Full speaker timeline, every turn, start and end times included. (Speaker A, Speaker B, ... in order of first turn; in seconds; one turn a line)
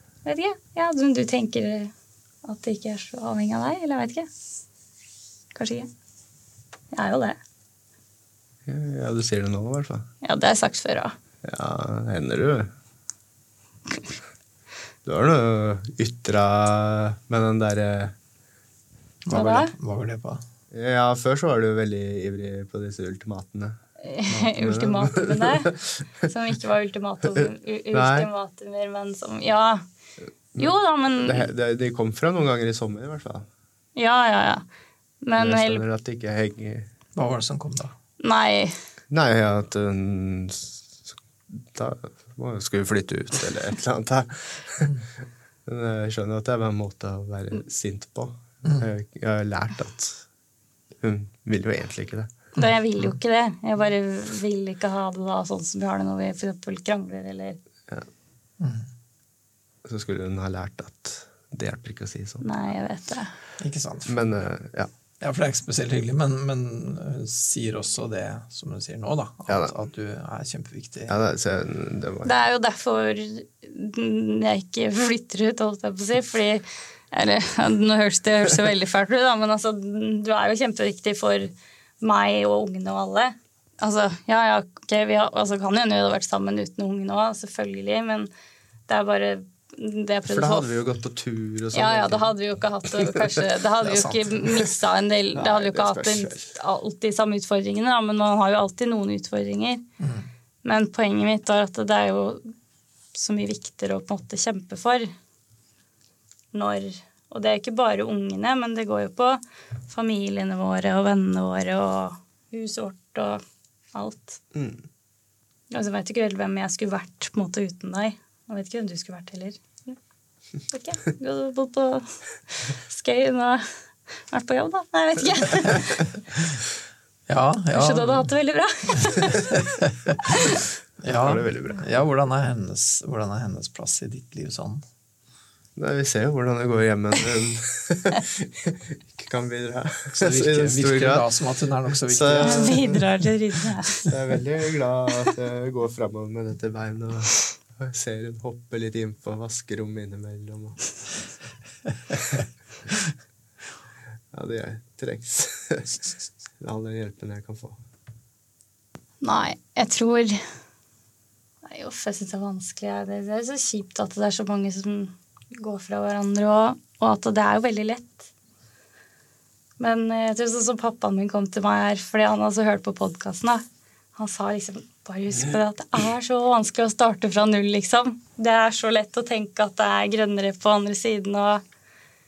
Speaker A: 0.2-1.9
Speaker A: 2.4-4.3
Speaker A: 5.5-5.9
Speaker A: 6.9-7.4
Speaker B: 8.7-10.1
Speaker A: 10.2-11.2
Speaker B: 11.4-12.7
Speaker B: 15.1-18.2
Speaker C: 19.3-20.4
Speaker A: 19.3-19.7
Speaker B: 20.7-23.8
Speaker A: 24.0-29.9
Speaker B: 24.6-26.1
Speaker B: 27.4-28.3
Speaker A: 30.6-31.5
Speaker B: 30.6-33.5
Speaker A: 34.0-34.6
Speaker A: 35.2-35.8
Speaker B: 35.4-36.9
Speaker C: 37.1-37.9
Speaker A: 38.2-38.8
Speaker B: 39.1-45.0
Speaker B: 45.7-50.2
Speaker B: 51.0-52.3
Speaker A: 52.6-57.6
Speaker C: 52.6-53.1
Speaker C: 58.6-58.9
Speaker B: 59.9-62.5
Speaker A: 62.4-63.3
Speaker C: 63.6-64.3
Speaker B: 64.1-64.9
Speaker C: 65.2-71.2
Speaker B: 69.5-69.7
Speaker B: 71.1-72.3
Speaker A: 72.2-88.3
Speaker A: 88.9-90.7
Speaker B: 90.3-92.3
Speaker A: 91.7-99.8
Speaker C: 93.8-94.3
Speaker B: 95.3-96.6
Speaker C: 100.0-100.3
Speaker A: 100.6-102.5
Speaker A: 103.1-105.1
Speaker A: 106.5-113.4
Speaker A: 113.9-114.4
Speaker B: 114.5-114.8
Speaker A: 115.7-120.0
Speaker A: 120.7-123.7
Speaker A: 124.3-126.1
Speaker C: 127.3-128.3
Speaker A: 127.7-129.7
Speaker C: 129.6-130.4
Speaker A: 130.3-130.6
Speaker B: 131.0-131.8
Speaker C: 131.0-134.8
Speaker B: 135.8-141.3
Speaker C: 140.2-143.0
Speaker B: 141.9-143.0
Speaker A: 142.4-144.2
Speaker B: 144.1-150.8
Speaker B: 154.3-156.0
Speaker B: 156.6-157.8
Speaker A: 159.2-160.4
Speaker A: 161.7-168.3
Speaker A: 169.8-173.6
Speaker A: 174.2-181.6